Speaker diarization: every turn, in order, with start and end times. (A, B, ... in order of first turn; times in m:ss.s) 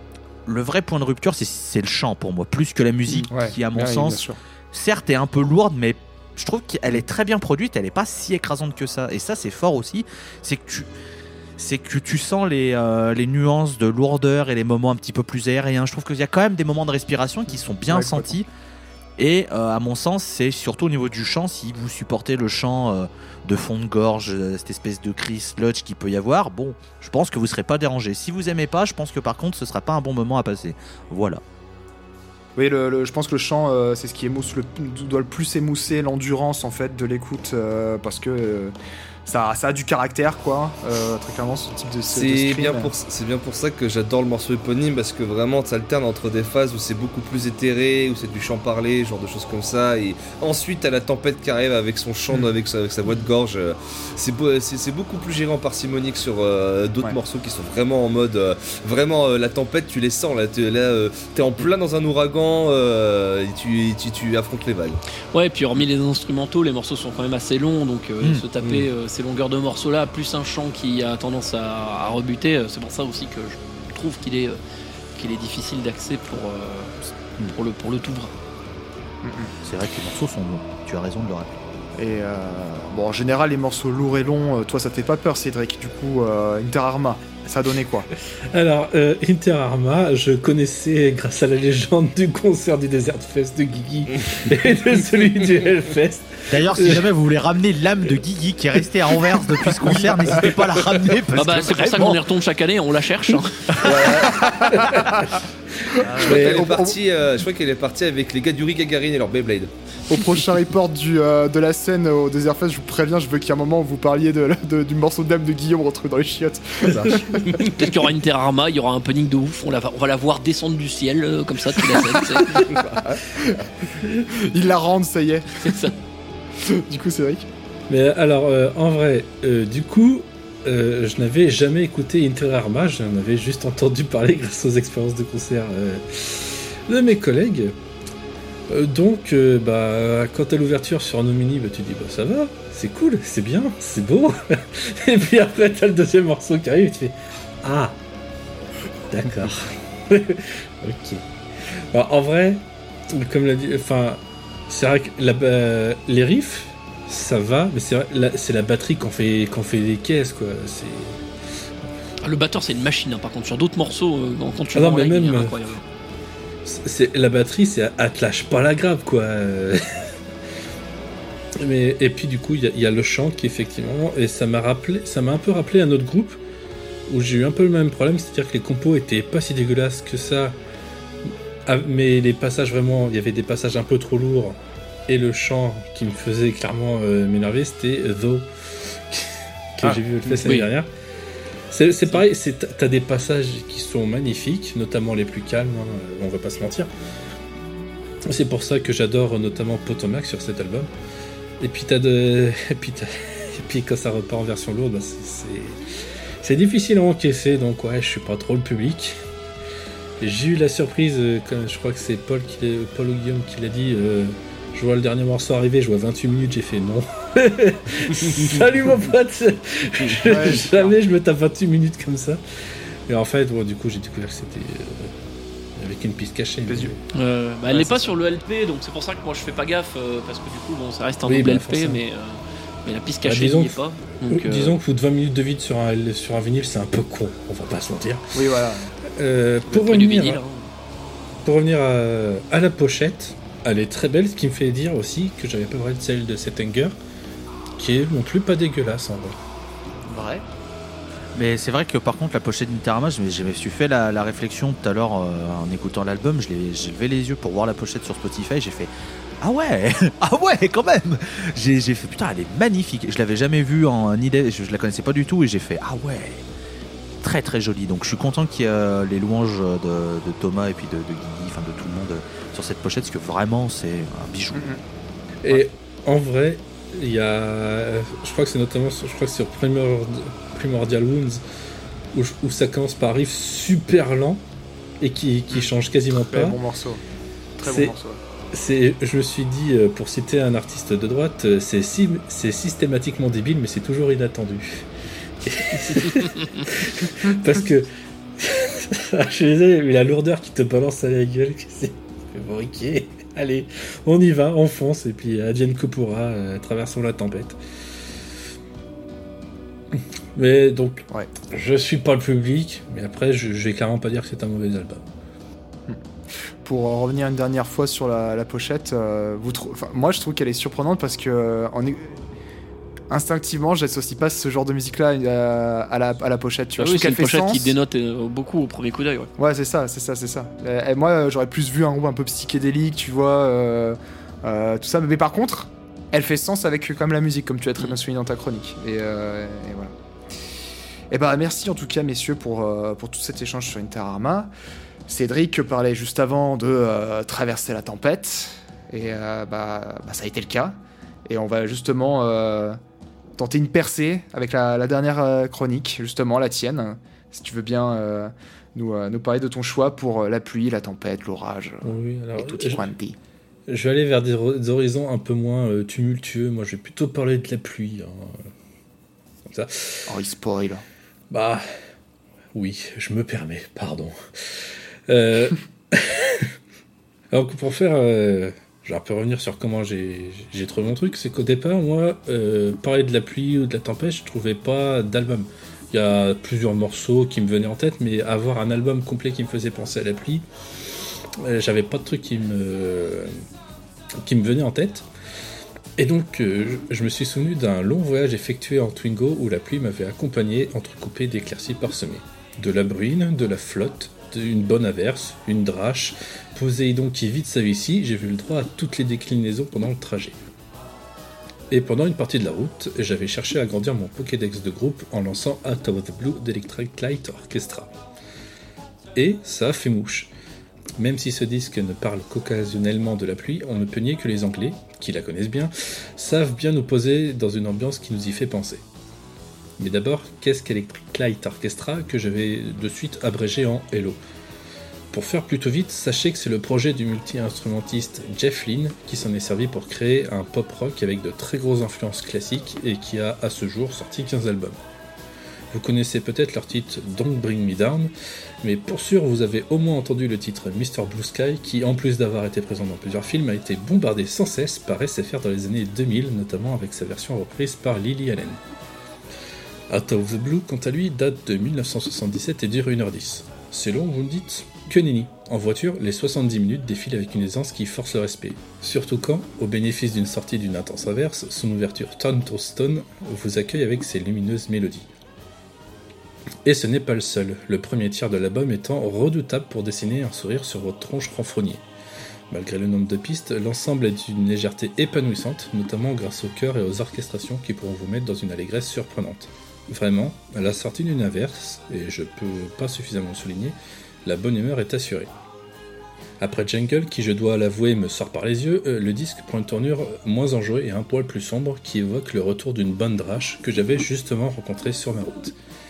0:00.4-0:10.9 A
0:03.1-0:04.4 B
0:11.6-0:18.5 A
0:17.9-0:18.3 B
0:19.2-0:31.4 A
0:32.6-0:38.7 B
0:39.2-0:42.9 B
0:42.1-1:05.0 C
1:05.3-1:14.6 D
1:08.2-1:08.8 A
1:15.1-1:18.3 D
1:19.2-1:19.5 B
1:19.6-1:21.8 A
1:22.0-1:28.1 B
1:28.5-1:37.1 E
1:36.5-1:42.2 A
1:39.7-1:40.1 E
1:41.3-1:43.9 D
1:43.8-1:45.4 E
1:44.2-1:45.3 B
1:45.9-1:46.6 A
1:46.0-1:46.9 B
1:46.2-1:49.7 C
1:46.2-1:46.6 E
1:50.1-1:57.5 B
1:57.0-1:57.8 E
1:57.5-2:02.6 D
2:02.6-2:03.6 B
2:04.3-2:05.7 B
2:05.6-2:05.9 D
2:06.6-2:07.5 B
2:07.9-2:17.7 E
2:18.7-2:27.9 E
2:29.1-2:41.2 E
2:42.2-2:45.8 D
2:44.7-2:45.6 E
2:46.6-2:50.1 E
2:51.6-2:56.4 E
2:57.1-3:00.6 E
3:01.6-3:10.9 E
3:10.4-3:10.7 D
3:11.7-3:16.9 E
3:18.3-3:20.9 E
3:21.6-3:25.8 E
3:26.4-3:29.2 E
3:30.2-3:42.4 E
3:40.2-3:40.9 B
3:43.1-3:45.1 E
3:45.8-3:47.0 E
3:46.6-3:47.0 B
3:47.1-3:54.8 D
3:47.7-3:48.1 E
3:51.2-3:52.0 E
3:53.2-3:53.8 E
3:54.3-3:58.3 E
3:58.3-3:58.9 B
3:59.0-4:00.4 E
3:59.7-4:00.6 D
4:01.4-4:06.9 E
4:07.8-4:09.4 E
4:10.0-4:10.4 B
4:11.3-4:26.4 A
4:27.2-4:34.7 A
4:34.5-4:34.8 B
4:35.4-4:41.4 E
4:42.1-4:44.4 E
4:45.0-4:46.6 E
4:45.5-4:47.0 B
4:47.6-4:47.9 E
4:47.6-4:48.2 B
4:48.5-4:54.9 E
4:55.4-5:07.6 E
5:10.0-5:15.0 E
5:16.6-5:22.2 B
5:23.1-5:27.7 B
5:26.8-5:29.3 D
5:29.4-5:39.9 B
5:41.1-5:44.5 B
5:45.1-5:52.8 B
5:53.4-6:03.2 B
6:01.8-6:02.9 E
6:03.7-6:08.5 E
6:09.4-6:10.1 E
6:10.1-6:10.8 B
6:11.3-6:11.6 E
6:12.5-6:16.5 E
6:17.3-6:30.4 E
6:31.4-6:33.3 E
6:34.2-6:35.0 E
6:36.0-6:50.4 E
6:51.7-6:57.9 E
6:59.1-7:00.3 E
7:01.0-7:08.8 E
7:09.8-7:14.2 E
7:15.1-7:24.8 E
7:25.7-7:28.1 E
7:28.6-7:38.6 E
7:39.9-7:55.1 E
7:56.6-8:01.8 E
8:02.5-8:15.3 E
8:16.4-8:25.5 E